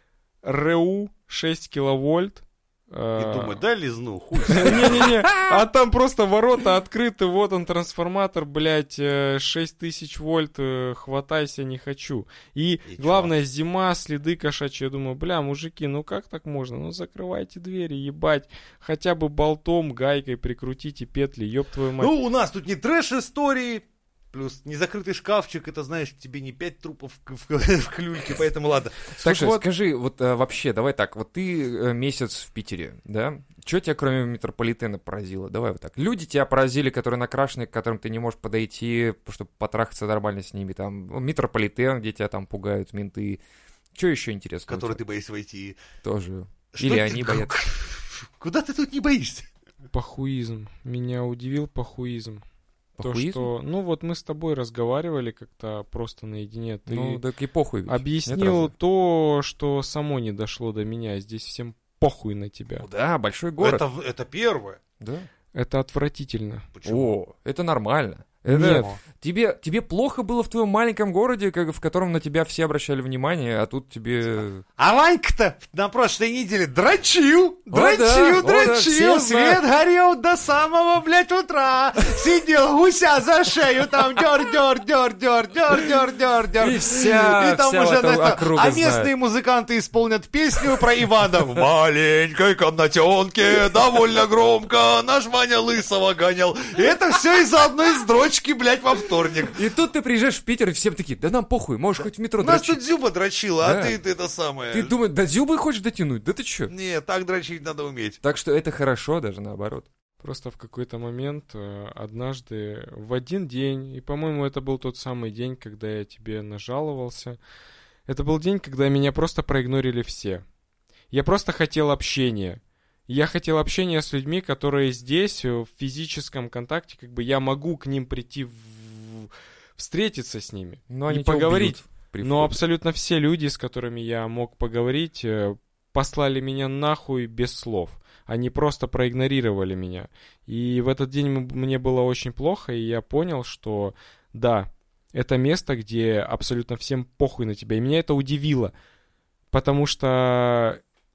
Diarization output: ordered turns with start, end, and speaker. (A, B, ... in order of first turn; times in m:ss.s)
0:00.4-0:03.6 A
0:03.2-0:05.1 B
0:04.5-0:22.1 A
0:04.5-0:05.6 C
0:12.9-0:13.3 B
0:22.0-0:29.2 B
0:29.2-0:43.4 C
0:29.2-0:29.6 A
0:43.9-0:45.0 C
0:44.7-0:45.8 B
0:46.0-0:47.5 C
0:46.7-0:49.5 B
0:49.9-0:52.4 A
0:53.0-0:53.5 C
0:53.0-0:57.2 A
0:56.9-0:58.7 C
0:57.8-1:02.8 A
1:02.8-1:03.8 C
1:03.6-1:04.8 B
1:05.0-1:05.3 C
1:05.5-1:06.7 A
1:06.7-1:07.2 B
1:06.8-1:14.6 C
1:08.5-1:08.9 A
1:14.8-1:39.6 B
1:17.7-1:19.6 C
1:26.6-1:29.1 C
1:39.5-1:42.8 C
1:42.4-1:44.9 B
1:43.6-1:44.0 C
1:44.7-1:46.7 C
1:46.7-1:48.2 B
1:48.2-1:49.9 C
1:50.2-1:57.4 A
1:58.1-2:00.4 A
2:01.1-2:28.7 A
2:10.9-2:12.6 C
2:29.5-2:30.8 A